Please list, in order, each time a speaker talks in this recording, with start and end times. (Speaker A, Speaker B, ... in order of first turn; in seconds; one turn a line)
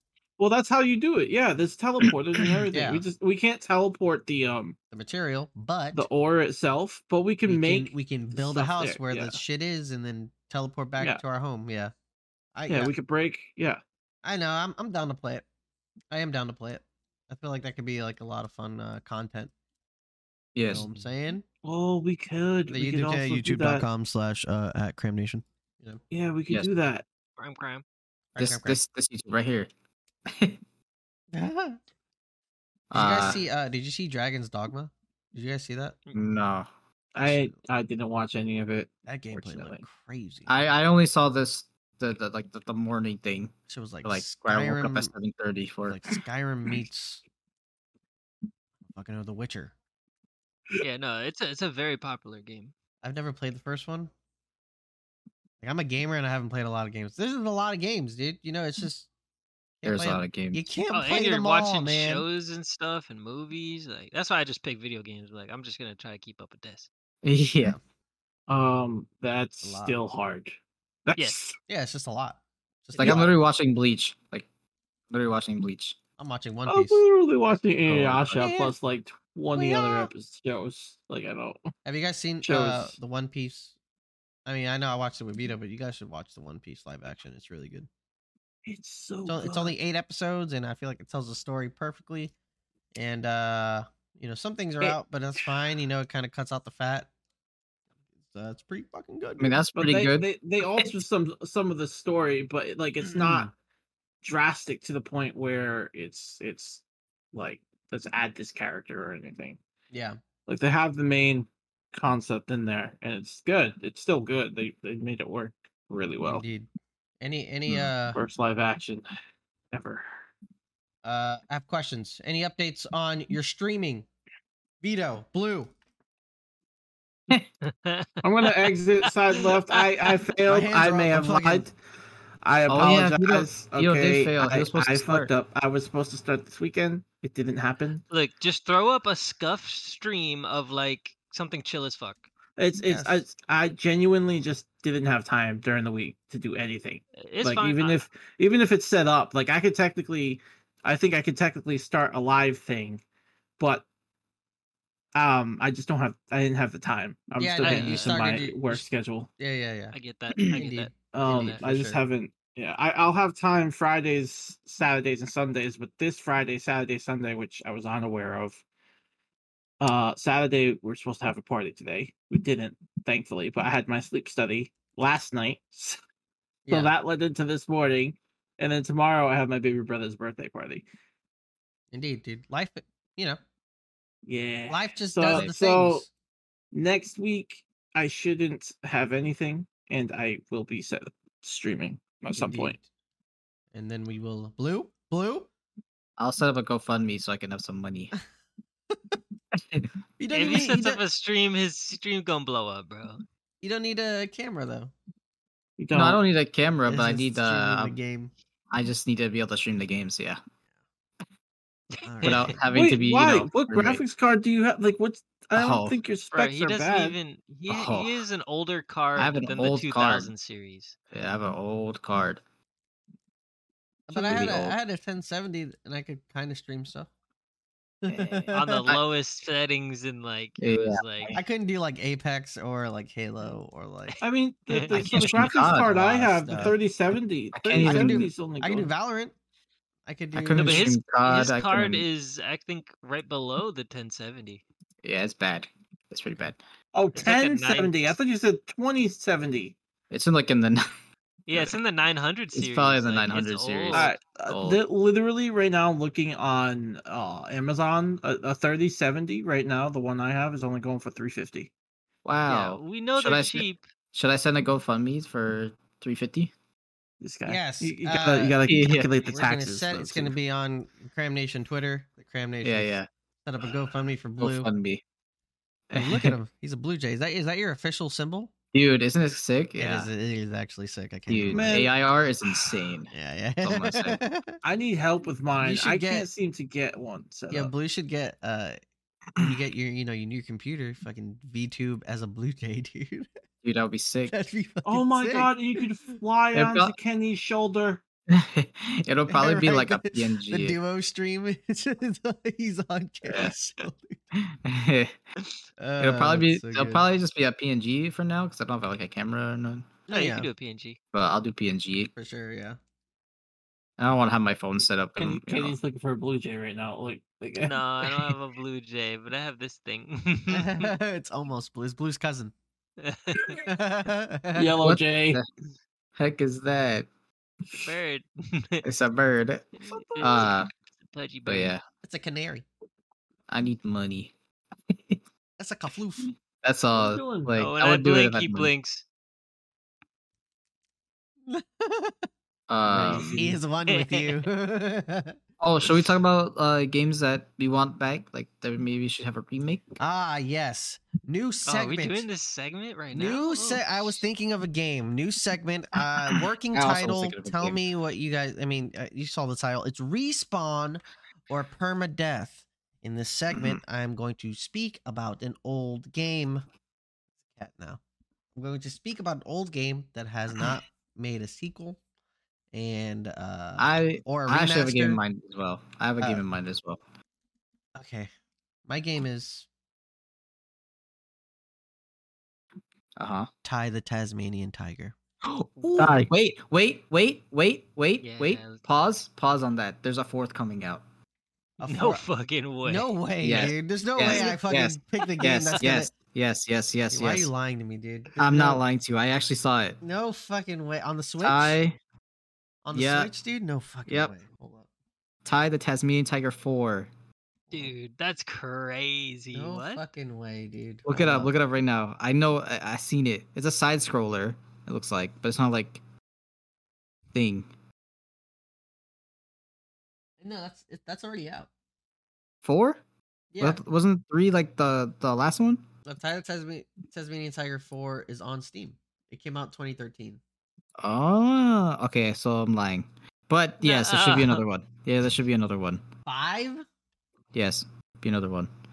Speaker A: 0.4-4.8
Speaker B: 2.7-3.0
Speaker B: 4.9-6.1
Speaker A: 5.9-9.4
Speaker B: 7.5-11.9
Speaker B: 12.5-12.9
Speaker A: 12.7-13.8
Speaker B: 14.2-15.4
Speaker B: 16.1-19.5
Speaker C: 20.5-20.9
Speaker B: 20.7-21.4
Speaker A: 21.6-23.8
Speaker B: 22.7-26.0
Speaker A: 26.1-27.0
Speaker D: 27.4-27.8
Speaker B: 28.3-28.8
Speaker C: 28.4-29.7
Speaker C: 30.3-30.6
Speaker B: 31.3-31.8
Speaker C: 32.9-33.4
Speaker B: 32.9-36.0
Speaker C: 36.1-36.7
Speaker A: 37.1-39.8
Speaker B: 37.2-37.5
Speaker B: 39.1-40.5
Speaker C: 40.5-46.0
Speaker B: 43.7-45.1
Speaker B: 45.9-47.2
Speaker B: 48.8-49.7
Speaker D: 50.8-52.7
Speaker B: 53.0-54.1
Speaker B: 55.6-59.1
Speaker B: 59.8-62.2
Speaker C: 59.8-60.6
Speaker D: 60.9-66.9
Speaker C: 67.2-67.8
Speaker A: 68.5-71.5
Speaker B: 69.6-70.0
Speaker B: 71.7-73.3
Speaker C: 72.9-74.5
Speaker A: 73.0-73.3
Speaker C: 75.1-76.0
Speaker B: 76.2-77.0
Speaker A: 76.7-81.7
Speaker C: 77.8-78.5
Speaker B: 78.4-78.7
Speaker B: 79.5-80.1
Speaker B: 81.8-83.7
Speaker A: 82.4-83.0
Speaker B: 84.5-87.9
Speaker A: 88.7-89.7
Speaker B: 89.2-92.3
Speaker B: 92.9-97.1
Speaker B: 98.2-99.5
Speaker C: 99.4-100.9
Speaker A: 99.7-103.5
Speaker B: 103.1-103.5
Speaker A: 104.2-109.6
Speaker B: 109.9-110.2
Speaker A: 110.5-116.4
Speaker B: 116.2-116.7
Speaker B: 117.2-118.2
Speaker A: 118.1-119.0
Speaker A: 119.7-120.1
Speaker B: 121.0-124.1
Speaker B: 124.8-125.7
Speaker D: 127.6-130.1
Speaker A: 128.2-131.7
Speaker B: 130.4-131.7
Speaker A: 132.4-138.0
Speaker C: 132.7-135.3
Speaker D: 138.1-142.2
Speaker A: 142.6-153.0
Speaker B: 142.8-143.2
Speaker D: 147.2-148.0
Speaker A: 153.6-153.8
Speaker A: 155.1-159.3
Speaker B: 157.3-158.8
Speaker D: 157.6-158.1
Speaker C: 157.7-158.1
Speaker B: 159.4-159.9
Speaker D: 159.9-161.6
Speaker B: 160.5-162.0
Speaker A: 161.1-168.6
Speaker A: 169.8-176.0
Speaker B: 176.7-176.9
Speaker A: 176.7-180.8
Speaker B: 181.9-183.4
Speaker A: 184.2-186.0
Speaker B: 184.7-186.1
Speaker C: 185.3-185.5
Speaker A: 186.7-192.8
Speaker B: 192.3-192.8
Speaker B: 193.7-195.5
Speaker C: 196.2-198.1
Speaker B: 198.9-199.2
Speaker B: 200.2-201.0
Speaker D: 200.3-203.2
Speaker B: 203.6-204.9
Speaker A: 205.8-206.2
Speaker C: 205.9-207.9
Speaker B: 206.8-208.3
Speaker C: 208.7-210.4
Speaker D: 211.9-212.5
Speaker B: 212.0-212.6
Speaker C: 212.2-214.0
Speaker A: 212.7-217.2
Speaker C: 215.5-216.0
Speaker D: 216.3-220.9
Speaker C: 217.7-218.2
Speaker C: 219.2-220.3
Speaker C: 221.1-222.4
Speaker B: 224.1-227.1
Speaker C: 224.1-224.8
Speaker B: 228.0-228.8
Speaker C: 228.1-229.0
Speaker D: 228.5-231.3
Speaker C: 230.6-231.4
Speaker B: 231.3-234.2
Speaker A: 234.2-238.9
Speaker D: 234.7-235.4
Speaker C: 234.9-235.9
Speaker B: 235.7-236.8
Speaker C: 237.5-238.3
Speaker B: 237.8-239.3
Speaker B: 240.1-240.9
Speaker C: 240.3-242.1
Speaker D: 240.6-244.6
Speaker C: 245.0-246.6
Speaker A: 246.9-249.7
Speaker D: 247.2-248.0
Speaker C: 250.1-250.9
Speaker D: 251.5-254.1
Speaker C: 252.5-254.8
Speaker A: 253.9-261.7
Speaker C: 262.2-266.5
Speaker D: 262.5-263.8
Speaker A: 267.2-270.3
Speaker B: 267.5-268.6
Speaker C: 268.6-269.1
Speaker B: 269.2-272.9
Speaker C: 272.6-273.1
Speaker B: 273.4-274.7
Speaker C: 274.4-275.0
Speaker C: 275.9-276.3
Speaker B: 275.9-278.5
Speaker C: 278.7-280.1
Speaker B: 279.8-281.8
Speaker C: 281.3-283.1
Speaker A: 281.5-281.9
Speaker B: 283.1-284.6
Speaker C: 283.6-284.2
Speaker A: 284.6-287.7
Speaker B: 285.6-286.3
Speaker B: 287.5-288.8
Speaker B: 289.4-293.3
Speaker C: 293.6-294.4
Speaker B: 294.3-295.8
Speaker A: 294.8-298.0
Speaker C: 296.5-296.9
Speaker C: 298.3-300.8
Speaker B: 299.3-304.2
Speaker C: 303.2-303.5
Speaker C: 304.4-305.1
Speaker B: 305.8-307.0
Speaker C: 306.0-309.9
Speaker B: 310.1-310.5
Speaker D: 310.1-311.0
Speaker C: 311.1-312.1
Speaker B: 312.1-312.8
Speaker C: 314.0-315.8
Speaker A: 315.2-318.3
Speaker D: 317.6-320.9
Speaker B: 320.5-322.5
Speaker D: 323.0-323.6
Speaker B: 323.6-324.8
Speaker A: 324.5-325.4
Speaker C: 324.8-325.5
Speaker C: 326.2-327.1
Speaker D: 327.8-328.8
Speaker C: 328.8-330.7
Speaker D: 329.8-331.7
Speaker A: 329.9-330.5
Speaker C: 331.5-331.8
Speaker B: 332.0-332.6
Speaker C: 333.5-334.3
Speaker C: 334.9-335.2
Speaker B: 335.6-336.3
Speaker C: 336.6-338.7
Speaker A: 336.9-337.6
Speaker D: 337.6-339.0
Speaker B: 341.4-342.3
Speaker C: 342.7-343.4
Speaker B: 342.9-346.0
Speaker A: 342.9-343.6
Speaker D: 343.9-344.4
Speaker C: 345.6-350.0
Speaker B: 350.0-352.2
Speaker D: 351.6-354.2
Speaker B: 353.1-366.6
Speaker C: 356.7-357.8
Speaker C: 363.5-363.8
Speaker B: 367.5-368.0
Speaker B: 368.6-372.0
Speaker B: 372.7-375.2
Speaker C: 373.8-377.0
Speaker B: 377.9-378.3
Speaker B: 378.9-379.7
Speaker C: 383.2-383.5
Speaker B: 383.6-385.1
Speaker C: 385.5-391.0
Speaker D: 388.2-388.8
Speaker B: 391.8-392.2
Speaker D: 391.9-393.1
Speaker B: 392.8-396.1
Speaker C: 393.4-397.5
Speaker D: 394.2-394.6
Speaker B: 397.1-398.8
Speaker C: 398.4-400.0
Speaker B: 400.0-401.8
Speaker C: 401.4-402.0
Speaker B: 402.8-404.9
Speaker C: 402.9-403.3
Speaker C: 404.1-404.3
Speaker C: 405.4-407.1
Speaker D: 407.7-410.0
Speaker B: 409.5-411.5
Speaker C: 411.1-416.0
Speaker C: 417.3-417.7
Speaker B: 420.4-421.7
Speaker C: 422.6-423.0
Speaker B: 423.5-423.8
Speaker C: 423.6-425.8
Speaker B: 426.1-430.4
Speaker C: 431.0-436.0
Speaker D: 433.8-434.6
Speaker B: 436.2-436.9
Speaker C: 437.5-438.7